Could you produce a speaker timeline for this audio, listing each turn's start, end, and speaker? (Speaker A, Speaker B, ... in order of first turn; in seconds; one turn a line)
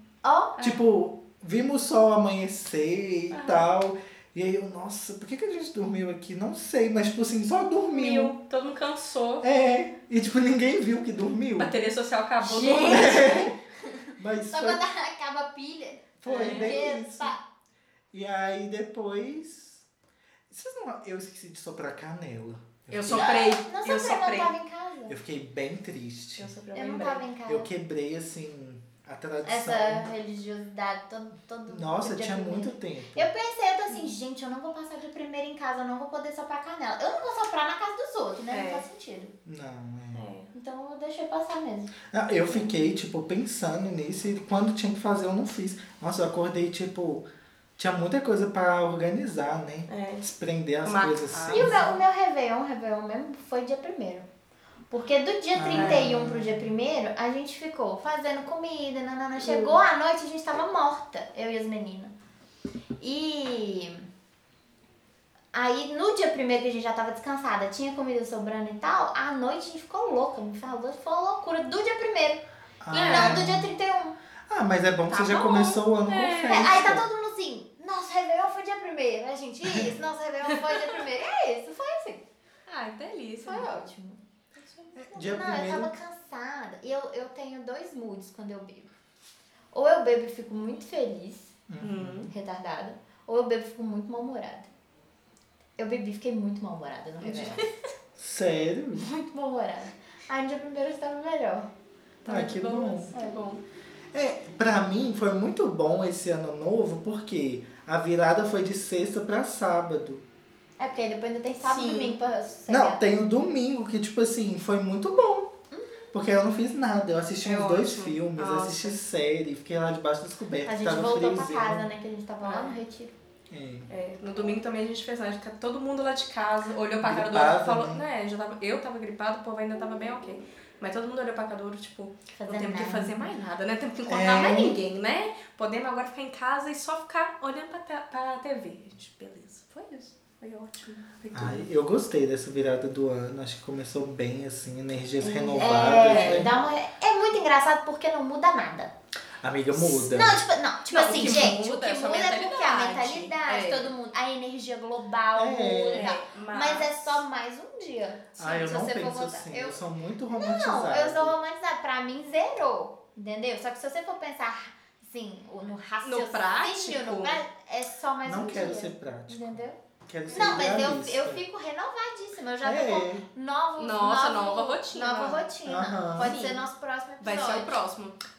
Speaker A: 0.2-0.6
Speaker B: 0.6-8.3
Speaker C: 3.3-3.6
Speaker C: 7.9-9.5
Speaker B: 9.4-11.7
Speaker C: 11.6-13.3
Speaker A: 12.4-17.4
Speaker B: 12.7-13.6
Speaker B: 14.2-14.8
Speaker B: 16.2-17.3
Speaker C: 16.3-16.8
Speaker B: 18.1-19.9
Speaker B: 20.5-23.3
Speaker C: 22.9-24.5
Speaker A: 23.1-25.2
Speaker B: 25.1-26.5
Speaker C: 26.4-27.2
Speaker A: 26.7-27.7
Speaker B: 27.5-30.1
Speaker A: 29.4-39.3
Speaker B: 31.7-33.3
Speaker C: 38.5-38.9
Speaker B: 39.5-40.2
Speaker C: 40.1-40.5
Speaker A: 40.5-41.9
Speaker B: 42.1-47.3
Speaker B: 47.8-51.9
Speaker C: 49.9-50.2
Speaker C: 50.8-52.0
Speaker A: 51.5-54.3
Speaker A: 54.9-62.1
Speaker B: 55.5-56.7
Speaker C: 55.7-56.1
Speaker C: 59.4-59.8
Speaker A: 63.0-64.0
Speaker A: 65.5-74.2
Speaker B: 72.8-73.7
Speaker C: 72.9-73.4
Speaker B: 74.5-77.1
Speaker C: 75.1-76.7
Speaker A: 76.5-82.2
Speaker B: 79.6-80.0
Speaker C: 80.5-81.0
Speaker C: 82.7-83.9
Speaker A: 83.4-84.2
Speaker C: 84.5-84.9
Speaker B: 85.0-85.9
Speaker A: 85.1-88.9
Speaker A: 89.7-91.5
Speaker B: 91.7-92.3
Speaker C: 91.8-92.3
Speaker A: 92.3-94.7
Speaker A: 95.8-97.7
Speaker C: 97.2-97.8
Speaker B: 98.2-99.1
Speaker A: 99.0-101.7
Speaker C: 102.2-103.6
Speaker B: 102.3-103.1
Speaker A: 103.1-103.4
Speaker B: 104.1-110.2
Speaker A: 110.8-113.0
Speaker C: 111.7-112.2
Speaker B: 112.7-115.5
Speaker A: 115.7-116.1
Speaker B: 116.1-121.9
Speaker C: 117.4-118.9
Speaker A: 120.7-123.2
Speaker C: 122.4-122.8
Speaker B: 123.5-123.9
Speaker C: 123.9-141.7
Speaker B: 127.0-128.0
Speaker A: 132.3-133.3
Speaker B: 134.1-134.8
Speaker B: 141.3-146.5
Speaker A: 145.2-148.9
Speaker C: 146.0-146.5
Speaker B: 149.4-150.4
Speaker A: 149.7-159.8
Speaker C: 150.9-153.9
Speaker B: 155.3-156.1
Speaker C: 155.9-157.2
Speaker B: 158.4-161.3
Speaker A: 160.3-177.8
Speaker C: 166.0-167.4
Speaker B: 168.2-171.4
Speaker C: 170.3-170.7
Speaker B: 172.6-173.2
Speaker C: 173.8-175.5
Speaker B: 175.7-176.4
Speaker C: 176.2-176.6
Speaker C: 177.2-178.2